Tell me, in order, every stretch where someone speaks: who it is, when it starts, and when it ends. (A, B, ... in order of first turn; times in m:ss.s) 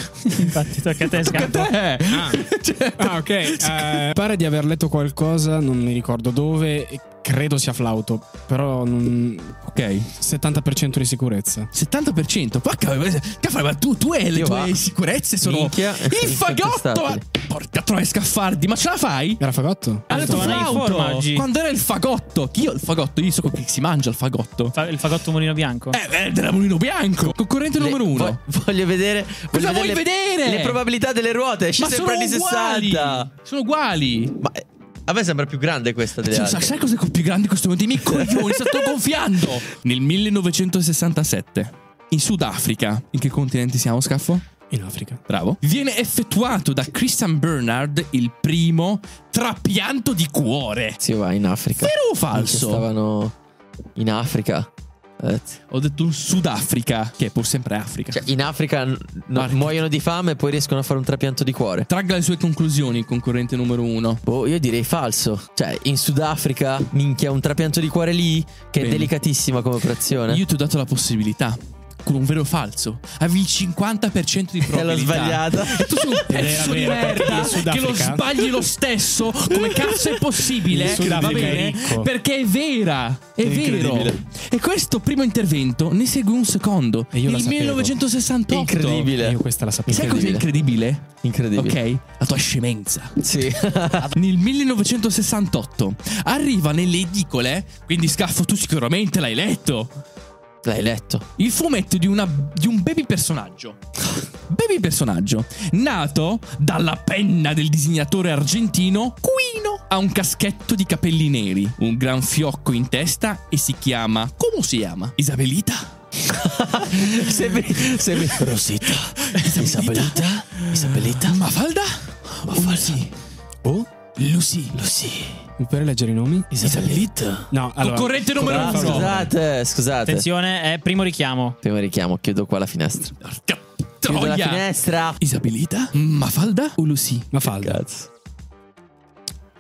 0:00.3-0:01.7 A
0:00.3-0:04.1 B
0:02.1-0:02.5 C
0:03.0-0:09.6 C
0:09.6-0:10.1 B
0:10.2-0:11.7 C
0:11.7-0:19.4 B
0:14.3-0:14.8 D
0:15.4-0:17.2 D
0:19.4-0:20.8 C
0:20.1-0:21.5 A
0:20.1-0:24.8 B
0:24.8-0:26.0 A
0:25.9-0:28.4 B
0:27.2-0:33.3 D
0:29.5-0:30.8 B
0:31.8-0:34.4 B
0:34.4-0:36.8 D
0:36.2-0:44.4 B
0:38.1-0:38.9 D
0:44.7-0:45.2 C
0:45.3-0:51.0 B
0:51.0-0:53.3 D
0:51.8-0:52.9 B
0:54.0-0:55.6 D
0:55.7-0:58.3 B
0:58.1-1:01.9 D
0:59.4-0:59.8 B
1:01.9-1:04.2 B
1:04.3-1:10.4 D
1:08.8-1:09.1 B
1:10.3-1:29.2 B
1:14.6-1:16.8 D
1:16.2-1:18.4 C
1:19.5-1:20.3 D
1:20.7-1:22.1 C
1:21.0-1:21.4 D
1:23.4-1:24.2 C
1:23.8-1:24.2 D
1:27.1-1:28.0 C
1:28.5-1:30.5 D
1:29.2-1:30.3 C
1:29.9-1:33.2 B
1:31.2-1:31.8 D
1:33.2-1:34.1 D
1:34.0-1:39.9 B
1:40.6-1:41.3 D
1:41.4-1:43.8 B
1:44.5-1:55.9 B
1:56.3-2:01.4 D
1:59.3-2:03.1 B
2:02.5-2:03.0 D
2:03.6-2:03.9 C
2:04.2-2:04.8 B
2:04.7-2:05.4 D
2:05.6-2:06.5 C
2:06.5-2:07.5 D
2:06.6-2:07.2 B
2:07.5-2:09.3 C
2:07.8-2:09.2 B
2:08.4-2:10.3 D
2:10.0-2:11.6 A
2:11.6-2:13.1 D
2:13.2-2:14.7 B
2:14.0-2:15.2 D
2:15.2-2:17.3 B
2:17.3-2:17.8 C
2:17.4-2:18.1 D